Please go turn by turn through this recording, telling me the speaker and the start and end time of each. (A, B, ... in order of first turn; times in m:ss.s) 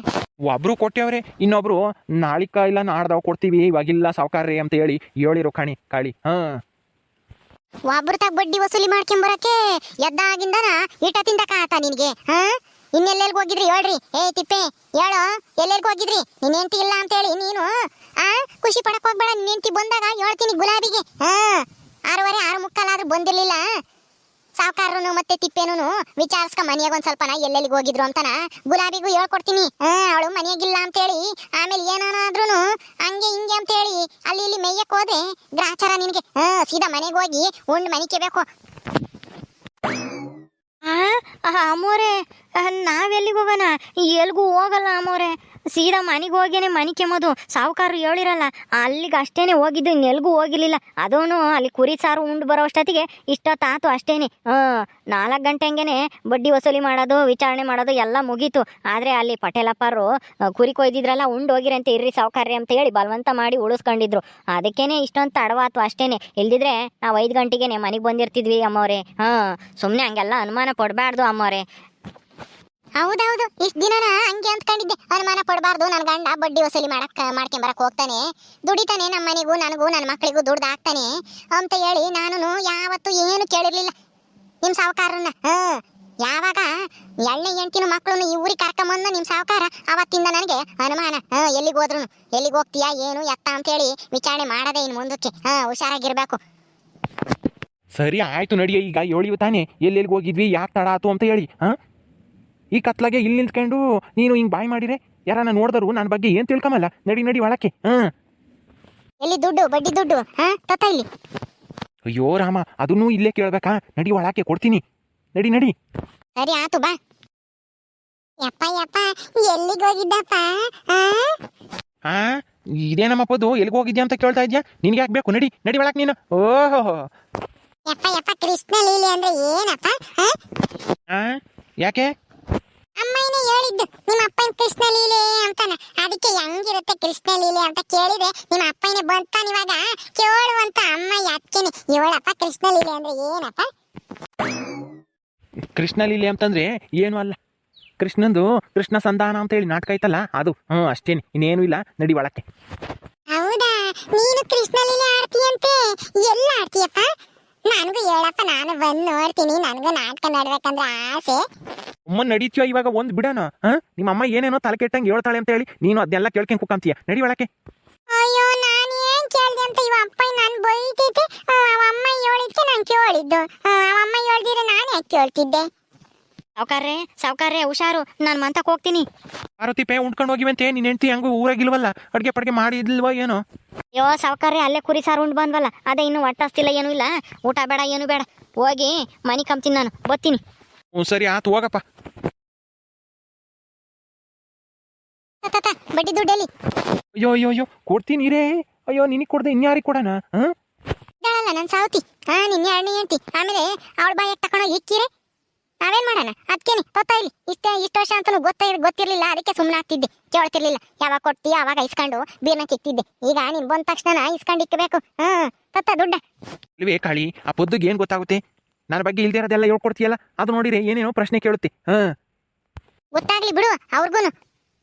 0:00.4-0:06.5 A
0:07.9-0:17.7 B
0:18.2-0:23.6 B
0:24.6-0:38.4 B
0:40.8-1:11.6 C
1:13.0-1:23.9 B
1:24.6-1:26.7 B
1:27.2-1:36.4 B
1:38.0-1:41.7 A
1:42.7-1:48.1 A
1:49.2-1:51.0 B
1:52.1-1:54.8 A
1:55.3-1:55.7 A
1:56.4-1:56.9 B
1:58.4-2:01.3 B
2:02.8-2:07.0 A
2:07.9-2:10.4 B
2:11.8-2:12.1 A
2:13.0-2:23.7 B
2:25.8-2:27.3 A
2:28.0-2:32.4 A
2:33.3-2:37.1 B
2:37.7-2:41.4 B
2:42.1-2:47.5 A
2:48.1-2:55.6 B
2:56.6-2:59.0 C
2:59.6-3:03.4 A
3:03.9-3:10.4 C
3:10.9-3:11.8 A
3:15.4-3:16.5 B
3:17.2-3:20.5 A
3:21.2-3:25.1 B
3:25.8-3:36.2 B
3:36.8-3:38.4 A
3:38.9-3:42.0 A
3:43.2-3:44.3 B